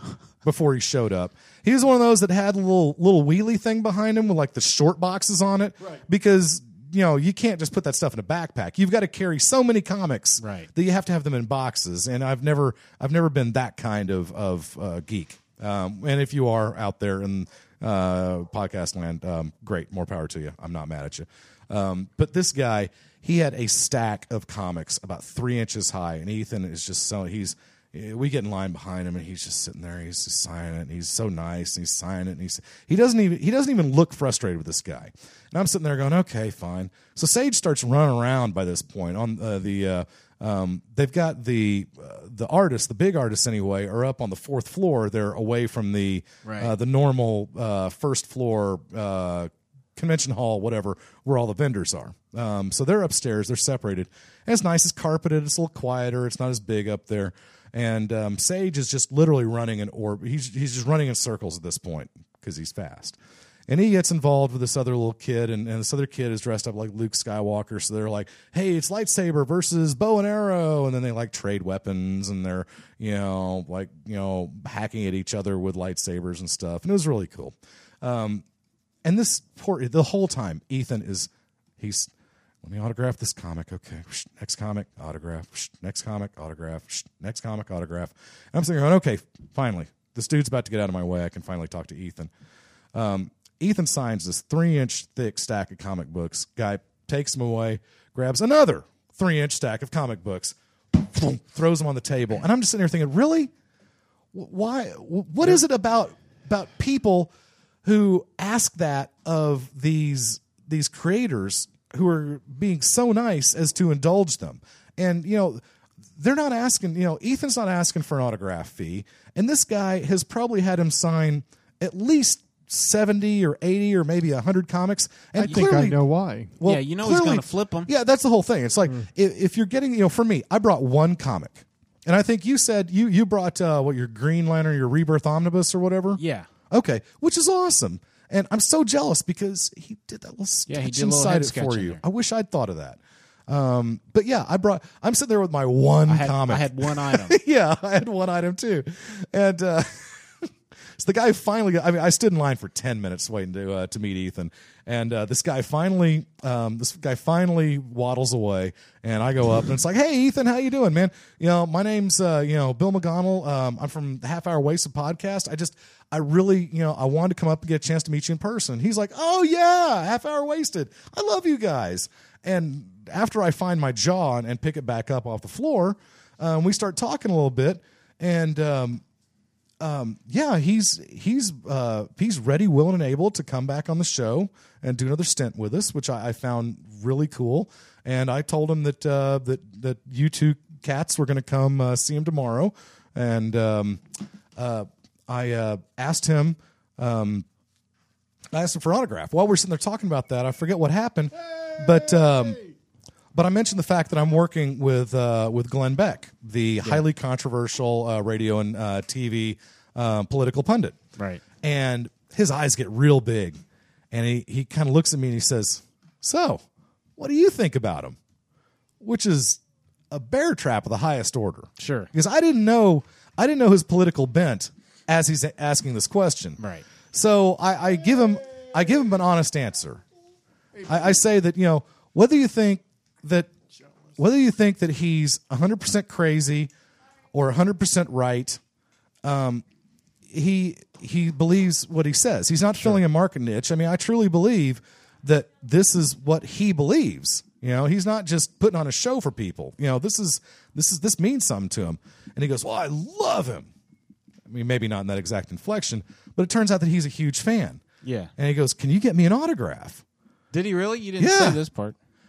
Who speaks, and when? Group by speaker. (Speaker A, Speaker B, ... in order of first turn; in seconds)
Speaker A: 0.4-63.2, 63.7-78.4, 79.0-82.1, 82.6-92.3, 92.9-103.5, 104.3-107.3, 107.8-115.6, 116.2-126.0, 126.6-179.0, 179.8-194.0, 194.6-197.5, 198.5-202.6, 203.3-211.0, 211.6-213.6, 214.1-216.6, 217.2-218.2, 219.0-226.6, 227.1-230.0, 230.9-233.5, 234.2-236.7, 237.3-238.6, 239.2-239.7, 240.3-253.7, 254.5-257.8, 258.4-260.0, 261.2-261.6
Speaker B: 10.4-10.7, 46.5-46.7, 126.6-127.9, 136.2-136.5, 140.7-142.0, 146.1-147.4, 211.2-211.4, 221.8-222.1, 226.6-226.9, 258.0-258.3, 260.5-262.0
Speaker C: 125.4-126.5, 201.5-202.7, 230.8-231.1